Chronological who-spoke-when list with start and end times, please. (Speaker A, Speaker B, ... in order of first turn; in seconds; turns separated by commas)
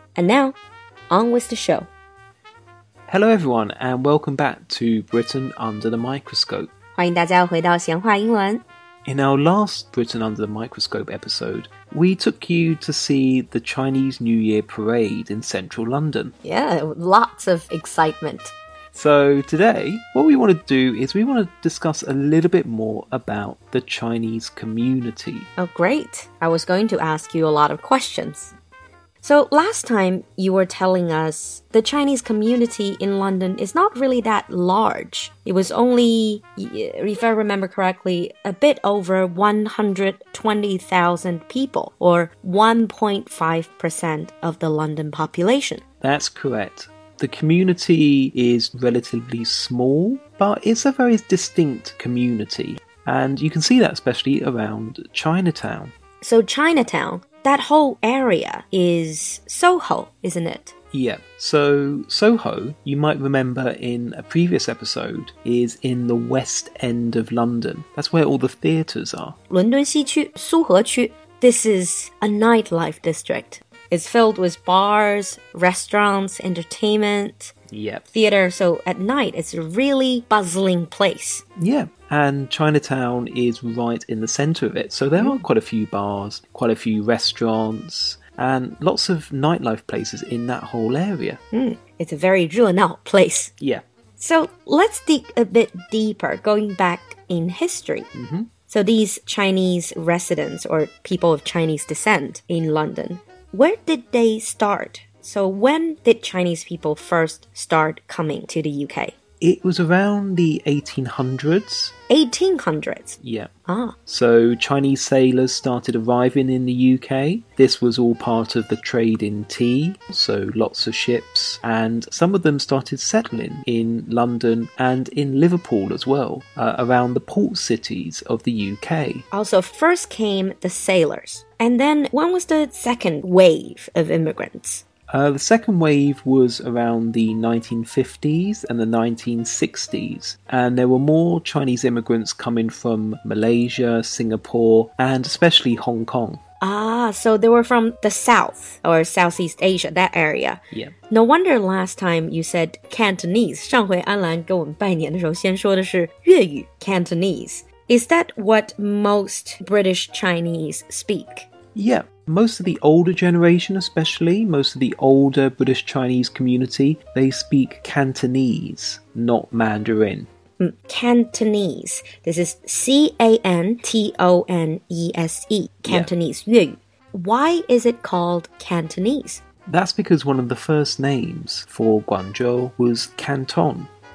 Speaker A: 0.1-0.6, Speaker A: 1.1-1.9, Speaker B: 3.1-6.7, Speaker A: 6.9-8.6, Speaker B: 9.1-16.3, Speaker A: 16.4-18.5, Speaker B: 18.9-25.5, Speaker A: 25.6-28.5, Speaker A: 29.2-45.8, Speaker B: 46.0-55.9, Speaker A: 56.2-60.7, Speaker B: 60.9-69.4, Speaker A: 69.5-77.5, Speaker B: 77.7-78.1, Speaker A: 78.1-81.4, Speaker B: 81.6-91.4, Speaker A: 91.5-93.5, Speaker A: 94.2-98.1, Speaker B: 98.1-98.5, Speaker A: 98.7-109.2, Speaker B: 109.4-111.9, Speaker A: 112.1-114.0, Speaker B: 113.2-113.5, Speaker B: 114.1-129.2, Speaker A: 129.3-134.8, Speaker B: 135.1-146.4, Speaker A: 146.6-161.5, Speaker B: 161.7-170.3, Speaker A: 170.6-179.4, Speaker B: 179.7-183.9